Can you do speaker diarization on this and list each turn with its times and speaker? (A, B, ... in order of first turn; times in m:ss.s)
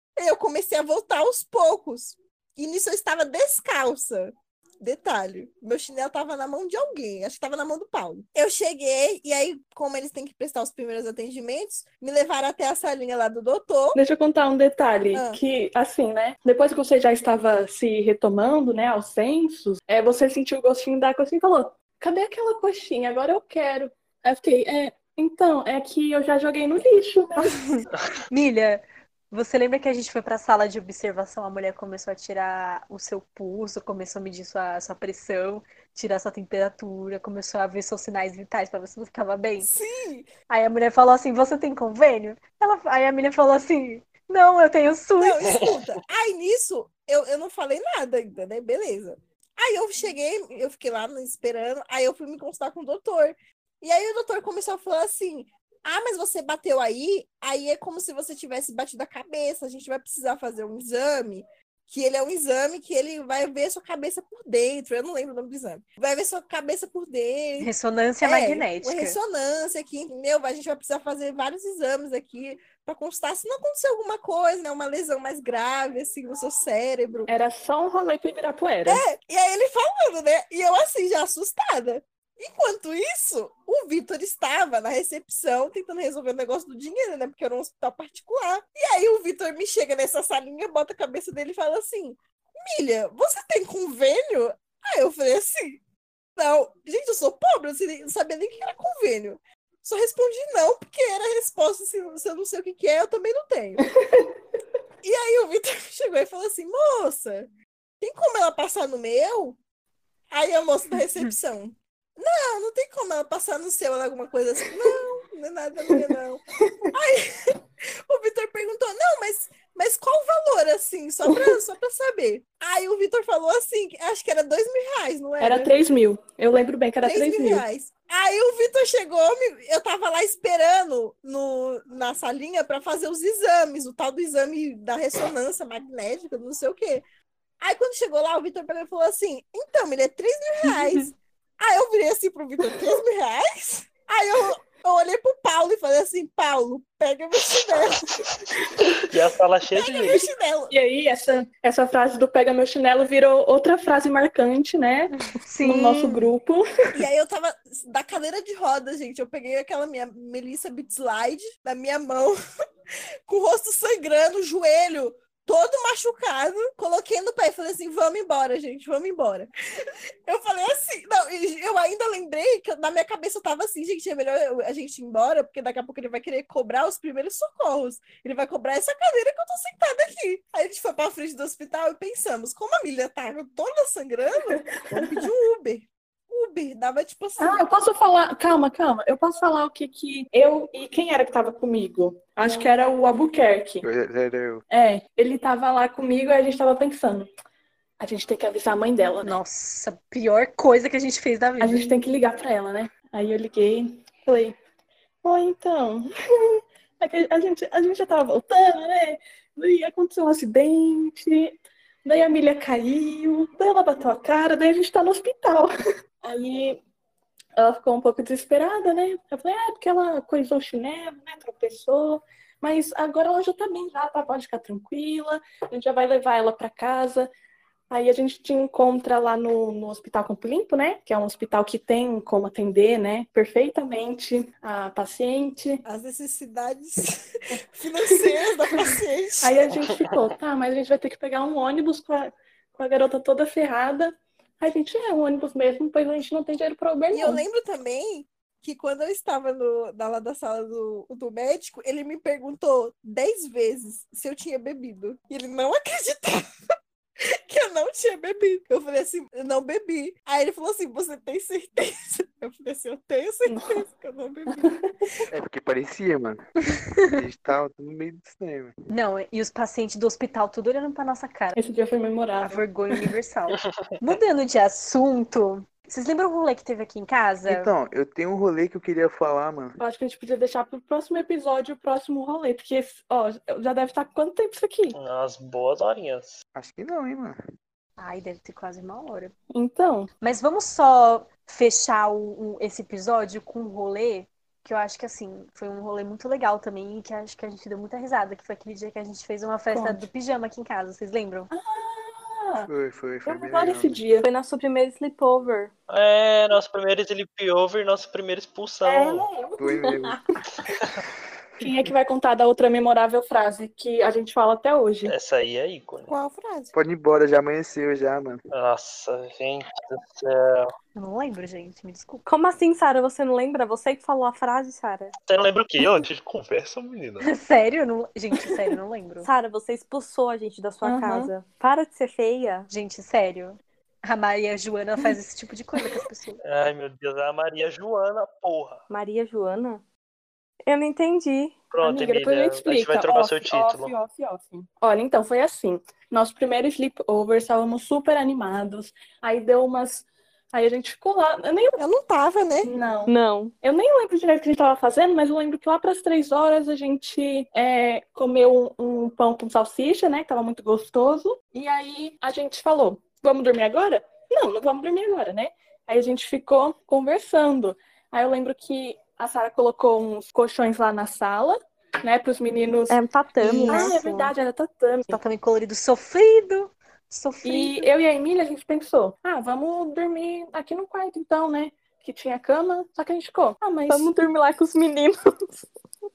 0:00.2-0:14.0 A
0:13.9-0:27.7 B
0:15.1-0:15.4 A
0:27.4-0:39.7 C
0:39.6-0:40.3 A
0:40.5-0:45.4 C
0:45.2-1:07.7 A
1:07.6-1:09.2 C
1:08.2-1:17.3 A
1:17.3-1:19.0 B
1:18.9-1:35.8 A
1:36.4-1:43.8 A
1:43.8-1:44.3 B
1:45.0-1:47.5 A
1:48.0-1:49.6 A
1:50.3-1:56.4 A
1:55.9-1:56.9 B
1:56.9-2:05.7 A
2:01.2-2:01.6 B
2:05.4-2:07.6 B
2:07.0-2:17.0 A
2:17.6-2:28.1 A
2:28.6-2:29.1 B
2:29.1-2:30.2 D
2:29.8-2:30.7 A
2:30.1-2:37.0 B
2:35.3-2:36.3 C
2:36.9-2:42.4 A
2:43.3-3:07.6 A
3:04.4-3:05.3 B
3:07.4-3:13.8 B
3:13.8-3:14.6 E
3:14.7-3:17.3 B
3:18.0-3:19.4 B
3:19.2-3:21.9 C
3:21.6-3:24.6 B
3:25.2-3:35.7 B
3:36.2-3:36.8 B
3:37.6-3:47.3 B
3:47.9-3:55.8 B
3:55.8-3:59.7 A
3:58.0-3:58.9 B
3:59.4-4:07.4 B
4:07.1-4:16.5 A
4:17.2-4:24.7 A
4:23.5-4:23.8 B
4:24.5-4:24.9 B
4:25.3-4:26.4 E
4:27.1-4:28.7 E
4:28.9-4:31.6 C
4:31.6-4:33.0 B
4:32.4-4:37.7 C
4:37.5-4:39.8 E
4:39.8-4:45.0 B
4:45.0-4:46.4 D
4:46.6-4:47.4 E
4:48.0-4:49.3 C
4:49.5-4:50.1 B
4:50.2-5:01.5 C
4:59.7-5:00.0 B
5:01.5-5:02.7 B
5:02.7-5:04.0 E
5:03.3-5:04.3 B
5:04.2-5:05.7 F
5:05.9-5:09.3 D
5:09.0-5:09.6 B
5:09.6-5:10.2 E
5:11.6-5:15.1 B
5:15.0-5:16.1 D
5:16.1-5:16.7 A
5:16.7-5:18.4 E
5:18.5-5:20.7 D
5:21.0-5:22.2 C
5:22.3-5:25.1 F
5:25.3-5:27.3 D
5:27.2-5:29.3 C
5:29.2-5:32.7 F
5:30.8-5:31.3 B
5:32.7-5:36.4 C
5:36.4-5:38.8 D
5:38.9-5:39.8 F
5:40.7-5:41.6 F
5:41.7-5:43.9 D
5:41.8-5:51.8 B
5:51.8-5:52.7 A
5:52.6-5:53.1 B
5:53.1-5:53.6 F
5:53.6-6:15.2 B
6:12.9-6:13.9 F
6:13.7-6:14.3 C
6:15.1-6:17.9 C
6:17.4-6:24.1 B
6:23.9-6:25.7 F